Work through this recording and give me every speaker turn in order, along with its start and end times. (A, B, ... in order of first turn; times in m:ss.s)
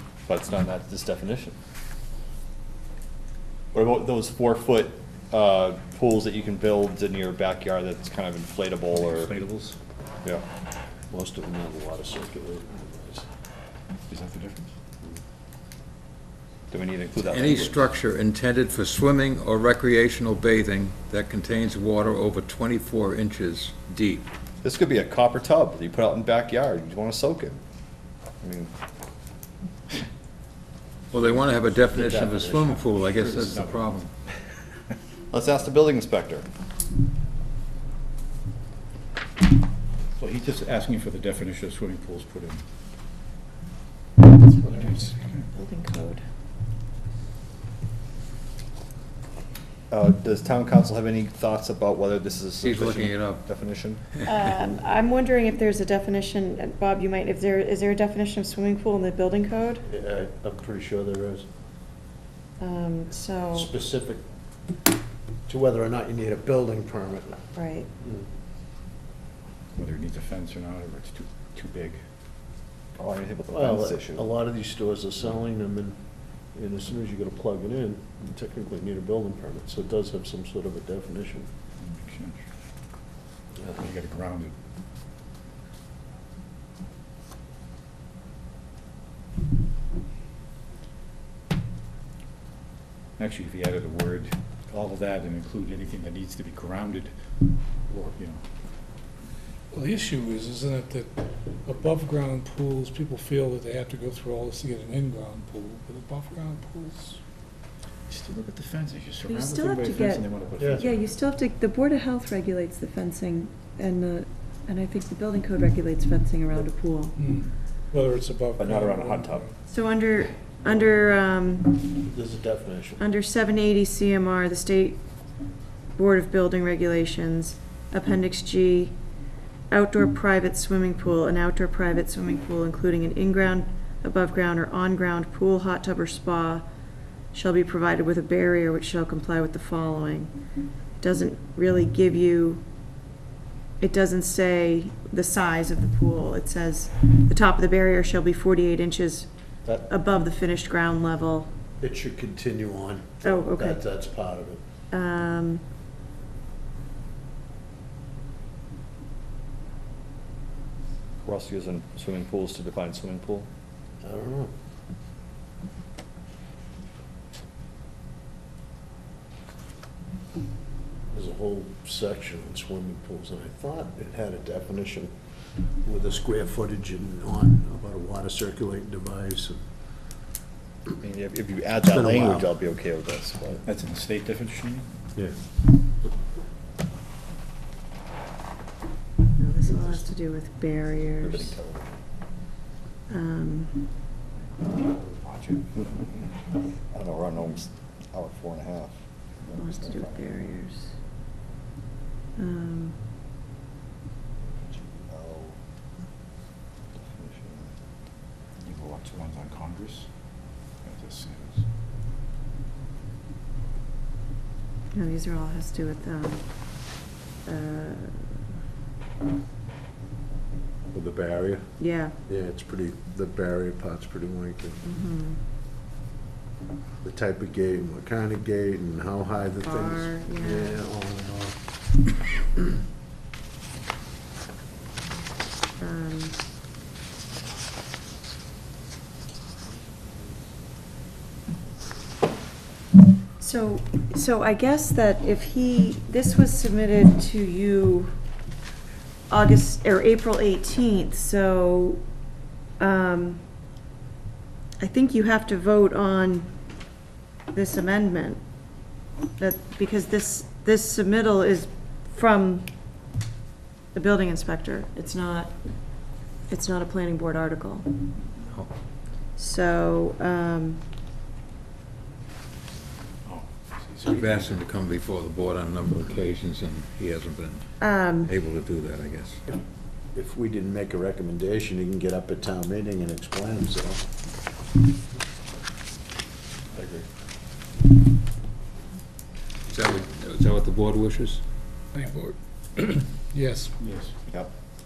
0:00.2-0:01.6 A
0:03.7-0:09.3 A
0:08.9-0:09.8 B
0:11.1-0:13.3 C
0:14.1-0:14.7 B
0:16.7-0:17.9 A
0:17.2-0:24.3 D
0:24.6-0:27.6 A
0:28.4-0:28.7 A
0:31.1-0:34.1 D
0:31.9-0:32.8 C
0:32.9-0:33.9 B
0:35.3-0:36.5 A
0:40.2-0:42.6 B
0:44.3-0:46.2 E
0:44.7-0:45.5 B
0:49.9-0:54.0 A
0:52.6-0:53.4 D
0:54.2-0:59.8 E
0:59.9-1:01.4 C
1:02.6-1:03.7 E
1:03.5-1:04.2 C
1:05.5-1:07.4 C
1:07.5-1:07.9 E
1:08.0-1:08.3 C
1:09.7-1:12.0 B
1:13.0-1:14.2 A
1:13.5-1:16.0 C
1:16.5-1:21.5 C
1:21.8-1:22.4 B
1:23.6-1:24.5 B
1:33.2-1:37.1 B
1:37.9-1:38.4 B
1:39.7-1:47.2 F
1:48.1-1:51.1 B
1:49.3-1:57.1 E
1:50.6-1:50.9 C
1:57.2-1:59.5 F
1:58.6-1:59.5 B
1:59.7-2:01.9 E
2:02.0-2:03.0 C
2:03.0-2:05.0 E
2:06.0-2:09.0 E
2:09.7-2:16.6 E
2:17.3-2:20.3 E
2:21.0-2:22.6 E
2:23.8-2:29.3 E
2:29.8-2:31.5 E
2:31.8-2:34.6 C
2:33.2-2:33.8 E
2:34.9-2:35.6 E
2:41.2-2:43.5 A
2:44.0-2:44.5 C
2:51.1-2:55.1 C
2:55.8-2:59.6 C
3:01.0-3:03.6 A
3:01.8-3:02.5 C
3:03.6-3:04.9 B
3:09.4-3:11.6 E
3:09.7-3:10.0 C
3:11.2-3:12.0 A
3:13.1-3:13.9 E
3:14.8-3:16.3 B
3:16.9-3:20.2 A
3:19.5-3:20.9 E
3:22.4-3:23.0 E
3:24.6-3:25.6 A
3:27.0-3:27.7 A
3:28.6-3:30.1 B
3:30.8-3:31.6 B
3:34.9-3:36.4 E
3:37.4-3:38.4 E
3:40.9-3:41.6 C
3:41.8-3:42.1 E
3:42.2-3:44.8 C
3:44.8-3:45.4 E
3:47.0-3:51.6 C
3:49.6-3:50.8 E
3:55.8-3:56.4 E
4:03.4-4:08.1 E
4:09.3-4:12.0 E
4:12.8-4:13.4 E
4:14.8-4:16.5 E
4:17.5-4:18.4 E
4:19.4-4:22.7 E
4:23.9-4:25.6 E
4:26.5-4:27.9 E
4:29.4-4:30.8 E
4:33.2-4:34.6 B
4:34.0-4:37.7 D
4:37.8-4:38.3 E
4:38.2-4:39.4 D
4:40.1-4:44.0 C
4:49.7-4:51.4 D
4:51.9-4:53.7 F
4:53.8-4:54.1 B